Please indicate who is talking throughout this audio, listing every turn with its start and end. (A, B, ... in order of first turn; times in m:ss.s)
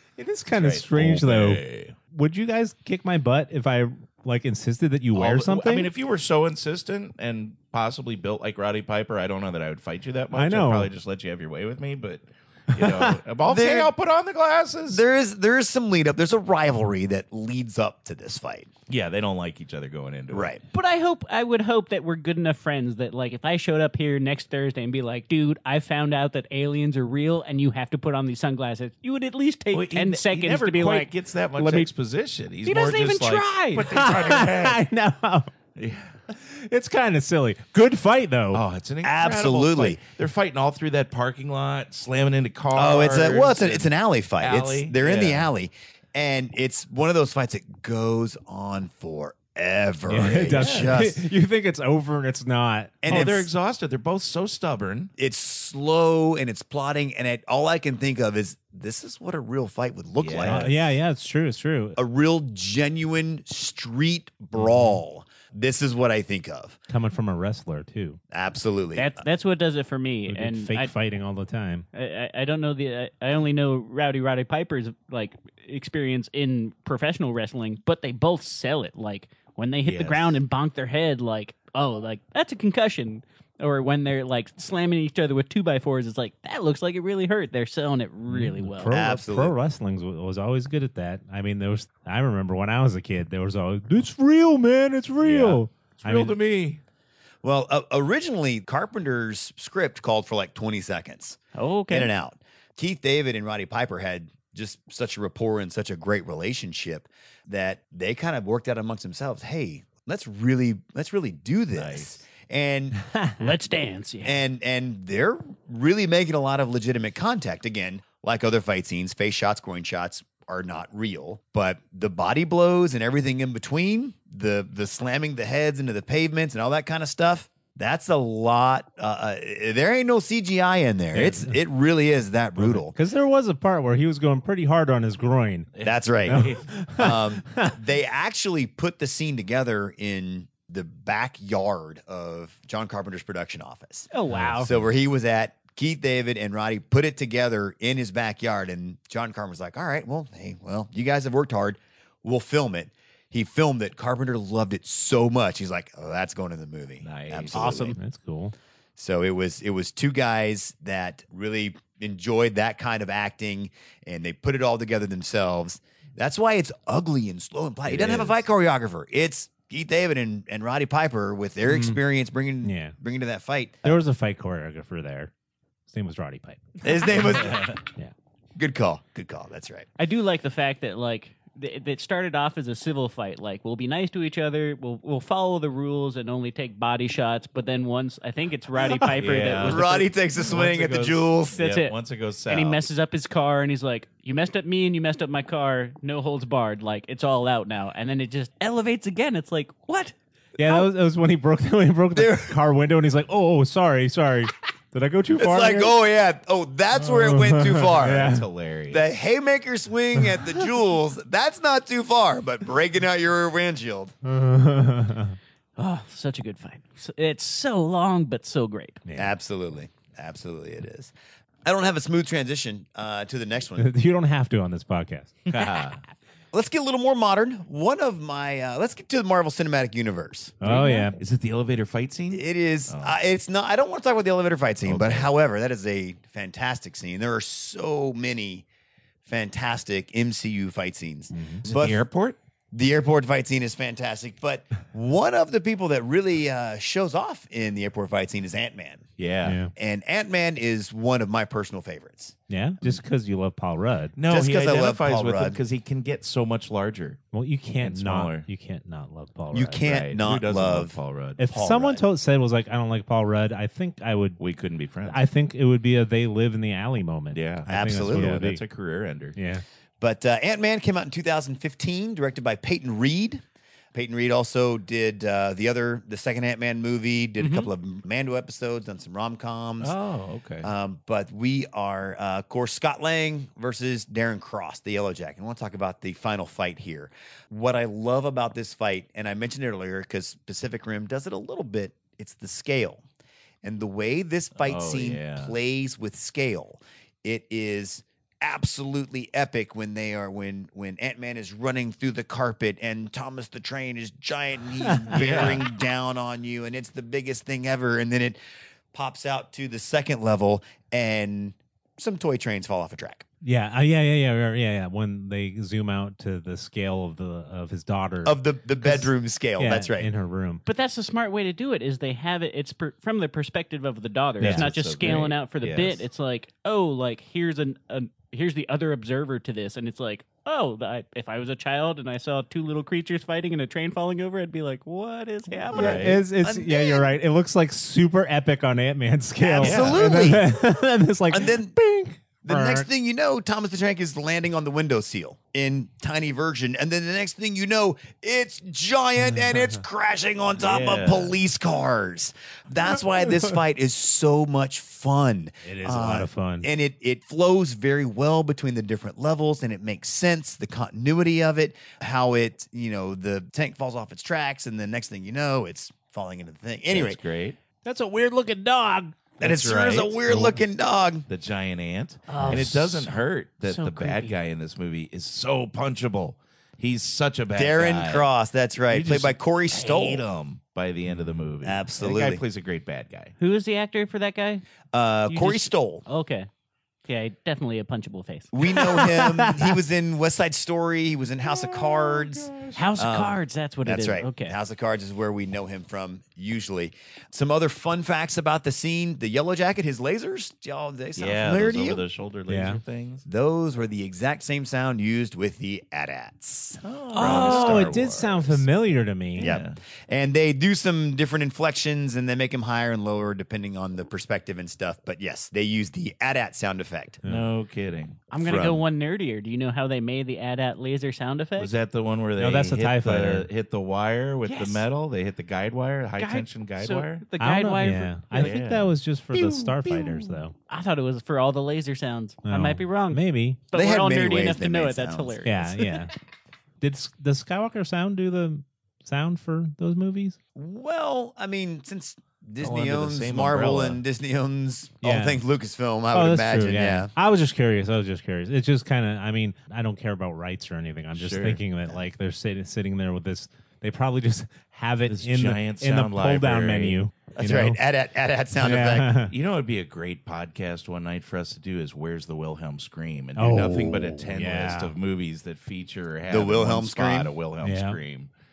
0:00.2-0:05.9 A
0:00.5-0:02.0 B
0:05.1-0:15.0 B
0:10.3-0:10.9 A
0:12.8-0:13.2 A
0:13.4-0:13.9 C
0:14.9-0:18.7 C
0:18.9-0:20.5 B
0:20.3-0:20.6 C
0:20.7-0:31.9 D
0:29.7-0:34.8 B
0:32.6-0:34.4 D
0:33.9-0:35.5 A
0:35.8-0:36.1 B
0:36.3-0:38.6 A
0:38.5-0:43.9 B
0:39.0-0:40.0 C
0:42.7-0:51.3 C
0:44.4-0:45.5 B
0:50.0-0:53.4 A
0:50.4-0:51.0 B
0:53.0-0:53.5 C
0:53.1-0:55.1 B
0:55.2-1:00.7 C
1:00.2-1:00.7 B
1:00.4-1:02.0 A
1:02.0-1:06.8 C
1:04.6-1:05.0 A
1:06.9-1:08.2 A
1:08.3-1:09.1 C
1:09.0-1:10.9 D
1:10.3-1:11.8 A
1:11.9-1:28.9 D
1:19.8-1:20.3 B
1:28.3-1:36.4 A
1:28.9-1:29.5 C
1:35.2-1:36.8 B
1:37.4-1:53.0 C
1:41.5-1:42.1 D
1:51.8-1:52.2 B
1:53.4-1:54.4 D
1:54.2-2:12.9 C
2:11.1-2:11.6 A
2:12.6-2:15.7 A
2:15.7-2:16.6 B
2:15.8-2:38.0 C
2:16.2-2:17.8 A
2:24.1-2:24.7 D
2:24.3-2:24.6 A
2:37.0-2:37.9 B
2:37.5-2:38.0 D
2:37.9-2:38.5 A
2:39.0-2:54.0 C
2:47.8-2:48.4 B
2:51.7-2:52.0 A
2:52.6-2:52.9 A
2:53.8-2:55.3 A
2:55.9-2:58.1 A
2:56.8-2:57.8 C
2:57.2-2:57.8 B
2:58.6-2:59.9 C
3:00.0-3:10.0 D
3:09.2-3:12.8 B
3:09.5-3:11.6 C
3:11.5-3:12.0 D
3:12.5-3:20.8 D
3:20.6-3:25.9 A
3:22.1-3:22.6 C
3:25.4-3:34.1 C
3:27.0-3:28.4 A
3:27.9-3:29.0 B
3:34.2-3:35.4 A
3:35.8-3:39.0 D
3:39.0-3:39.3 A
3:39.2-3:41.1 C
3:41.6-3:43.9 C
3:43.8-3:45.4 A
3:45.5-3:46.0 B
3:46.5-3:50.8 C
3:50.6-3:51.2 A
3:50.7-3:51.1 D
3:50.8-3:53.2 B
3:52.3-3:58.6 C
3:54.8-3:55.3 B
3:59.2-4:02.0 C
4:01.3-4:01.6 A
4:01.6-4:02.4 B
4:02.7-4:09.0 C
4:09.2-4:09.6 B
4:09.4-4:09.7 A
4:09.7-4:13.0 C
4:12.5-4:14.1 A
4:14.2-4:17.2 B
4:14.3-4:15.6 C
4:17.3-4:19.8 A
4:17.8-4:18.5 B
4:19.5-4:22.0 C
4:19.8-4:21.4 B
4:21.4-4:24.4 A
4:24.4-4:25.2 B
4:25.0-4:28.6 A
4:27.3-4:29.4 B
4:27.7-4:28.4 C
4:29.3-4:29.6 A
4:30.0-4:33.4 C
4:33.9-4:39.9 C
4:37.4-4:37.7 D
4:39.8-4:40.7 B
4:40.6-4:53.0 C
4:53.6-5:08.4 C
4:54.6-4:55.5 B
5:04.8-5:05.4 A
5:05.1-5:05.6 B
5:08.9-5:13.2 C
5:13.4-5:20.6 A
5:18.2-5:20.1 C
5:20.6-5:36.2 D
5:24.4-5:24.7 A
5:24.4-5:26.0 B
5:35.7-5:36.2 B
5:35.7-5:37.1 C
5:35.7-5:42.9 A
5:39.4-5:40.6 C
5:39.6-5:40.2 B
5:41.3-5:41.8 C
5:42.4-6:07.2 C
5:49.4-5:49.7 A
5:50.6-5:51.4 B
5:55.6-5:56.7 A
6:06.9-6:07.6 B
6:07.8-6:09.2 A
6:09.4-6:10.6 B
6:09.4-6:11.3 C
6:11.3-6:18.3 B
6:12.3-6:14.4 D
6:12.3-6:12.8 A
6:17.5-6:20.2 C
6:18.9-6:23.3 B
6:21.6-6:22.4 C
6:23.4-6:24.6 D
6:24.9-6:26.0 C
6:25.3-6:26.5 D
6:27.0-6:29.2 D
6:28.5-6:42.0 C
6:32.1-6:32.9 B
6:32.7-6:34.6 D
6:41.2-6:43.2 B
6:42.5-6:42.8 A
6:43.2-6:48.0 C
6:46.8-6:48.6 B
6:47.2-6:49.5 A
6:49.4-6:49.8 B
6:49.4-6:57.2 C
6:57.2-6:57.5 A
6:57.2-6:58.2 B
6:58.3-7:01.7 D
6:58.4-6:58.8 C
7:01.6-7:07.2 B
7:02.4-7:03.5 A
7:04.4-7:04.8 D
7:06.2-7:08.6 D
7:07.4-7:10.5 A
7:08.3-7:08.9 B
7:09.4-7:09.7 D
7:09.8-7:10.2 B
7:10.7-7:16.0 D
7:12.4-7:13.6 A
7:13.7-7:15.4 C
7:15.4-7:16.1 A
7:16.8-7:20.4 A
7:20.5-7:27.1 C
7:22.6-7:24.0 B
7:25.0-7:25.4 A
7:26.1-7:37.8 A
7:31.2-7:31.6 B
7:35.1-7:37.0 B
7:37.4-7:39.1 C
7:38.6-7:39.3 A
7:39.3-7:48.3 B
7:43.4-7:44.9 A
7:46.3-7:47.3 C
7:47.6-7:48.0 A